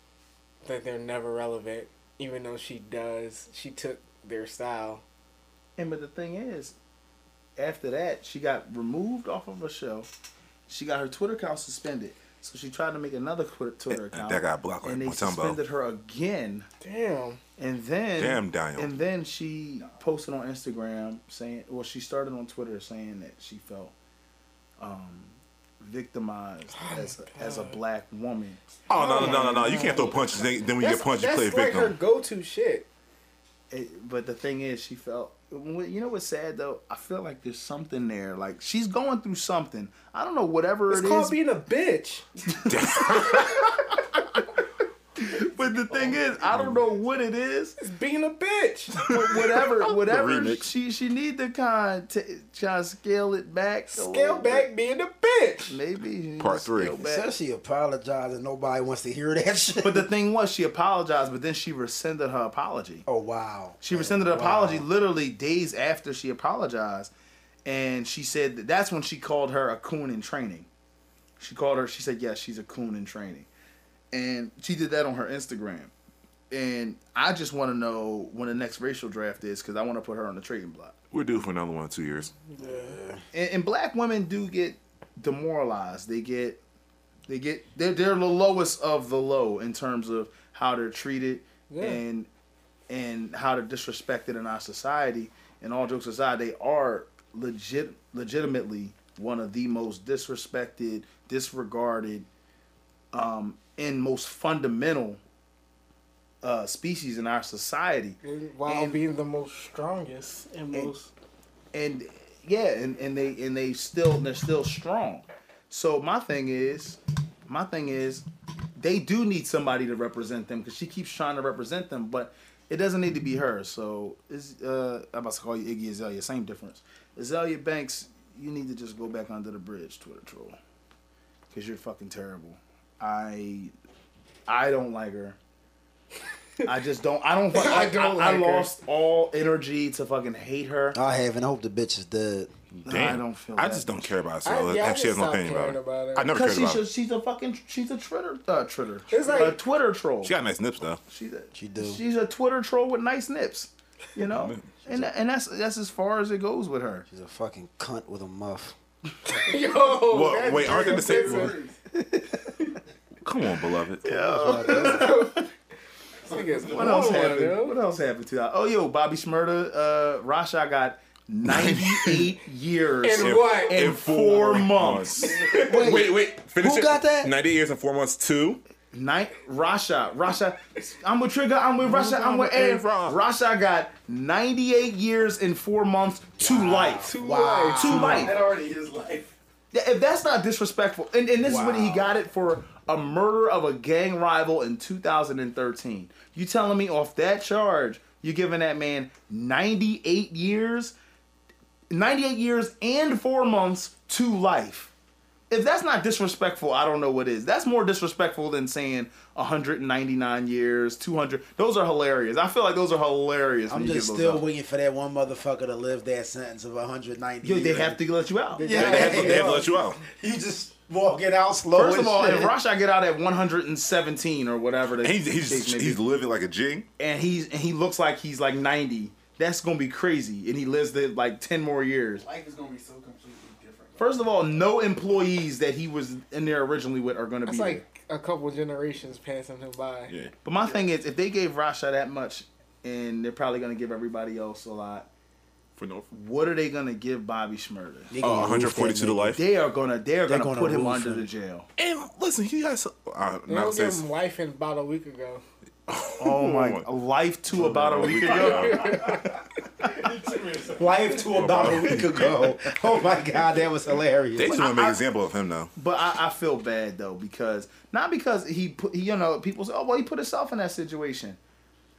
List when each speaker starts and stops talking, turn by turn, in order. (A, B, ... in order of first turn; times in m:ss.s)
0:00.6-0:05.0 A
0:05.8-0:06.7 B
0:07.6-0:10.1 B
0:10.7-0:16.7 B
0:13.9-0:15.6 C
0:16.8-0:17.4 A
0:17.6-0:23.9 B
0:18.2-0:18.9 C
0:24.8-0:30.4 B
0:26.7-0:27.8 A
0:28.9-0:32.0 C
0:28.9-0:30.2 A
0:30.8-0:32.9 A
0:33.7-0:41.4 B
0:40.9-0:42.2 A
0:42.5-0:43.8 B
0:42.7-0:43.6 C
0:45.2-0:47.8 B
0:46.5-0:46.8 C
0:47.8-0:49.0 A
0:49.0-0:54.7 B
0:49.0-0:50.7 C
0:53.9-0:55.8 A
0:55.7-0:57.3 B
0:56.4-0:57.0 C
0:57.0-1:00.1 D
0:59.8-1:03.0 B
1:03.1-1:04.9 D
1:03.8-1:07.1 B
1:07.6-1:10.7 B
1:11.4-1:13.5 B
1:14.1-1:15.9 B
1:16.5-1:21.0 B
1:21.1-1:22.3 C
1:22.5-1:23.0 A
1:22.6-1:23.2 D
1:23.3-1:26.6 B
1:27.3-1:32.3 B
1:31.7-1:32.0 A
1:32.9-1:42.3 B
1:43.1-1:45.2 B
1:46.4-1:49.0 B
1:48.2-1:51.1 A
1:51.7-1:58.2 B
1:58.8-2:10.6 B
2:11.5-2:13.7 B
2:14.5-2:15.4 B
2:16.6-2:21.0 B
2:17.5-2:18.7 A
2:20.9-2:22.5 D
2:22.8-2:26.8 C
2:22.9-2:24.1 B
2:24.4-2:26.3 A
2:26.3-2:30.3 B
2:29.1-2:29.6 A
2:30.2-2:31.0 C
2:31.1-2:37.1 B
2:31.6-2:32.0 D
2:34.3-2:34.8 C
2:37.1-2:38.8 D
2:39.2-2:41.6 A
2:40.0-2:41.6 C
2:40.6-2:41.7 E
2:41.9-2:42.4 D
2:43.2-2:44.0 C
2:44.0-2:45.2 D
2:44.1-2:45.4 B
2:44.2-2:45.4 A
2:46.2-2:47.3 E
2:46.3-2:47.8 A
2:46.7-2:55.8 B
2:51.4-2:52.2 C
2:53.0-2:54.0 A
2:53.1-2:58.6 C
2:55.6-2:57.3 D
2:58.9-3:07.1 B
3:01.8-3:03.2 C
3:06.4-3:08.4 D
3:07.1-3:08.2 A
3:07.8-3:08.4 B
3:07.8-3:09.3 E
3:09.7-3:20.9 B
3:11.4-3:12.1 D
3:21.9-3:24.9 B
3:25.5-3:34.4 B
3:33.7-3:38.0 D
3:37.4-3:39.3 B
3:38.5-3:39.7 A
3:38.6-3:42.5 D
3:38.7-3:40.0 C
3:41.7-3:46.0 B
3:45.0-3:46.9 C
3:47.0-3:52.2 B
3:52.2-3:54.3 E
3:54.0-3:57.8 B
3:57.4-4:00.1 A
4:00.1-4:00.3 C
4:00.4-4:05.1 B
4:05.8-4:06.1 C
4:06.1-4:08.1 B
4:08.1-4:09.4 D
4:08.2-4:09.4 C
4:09.4-4:11.7 B
4:10.3-4:11.3 D
4:11.8-4:14.0 C
4:13.5-4:15.4 A
4:15.9-4:16.8 C
4:16.2-4:20.0 B
4:17.5-4:19.0 C
4:18.4-4:19.4 A
4:18.8-4:19.2 E
4:19.8-4:21.4 E
4:20.8-4:24.6 D
4:21.3-4:22.6 C
4:24.4-4:25.7 C
4:24.4-4:25.0 B
4:25.8-4:31.4 B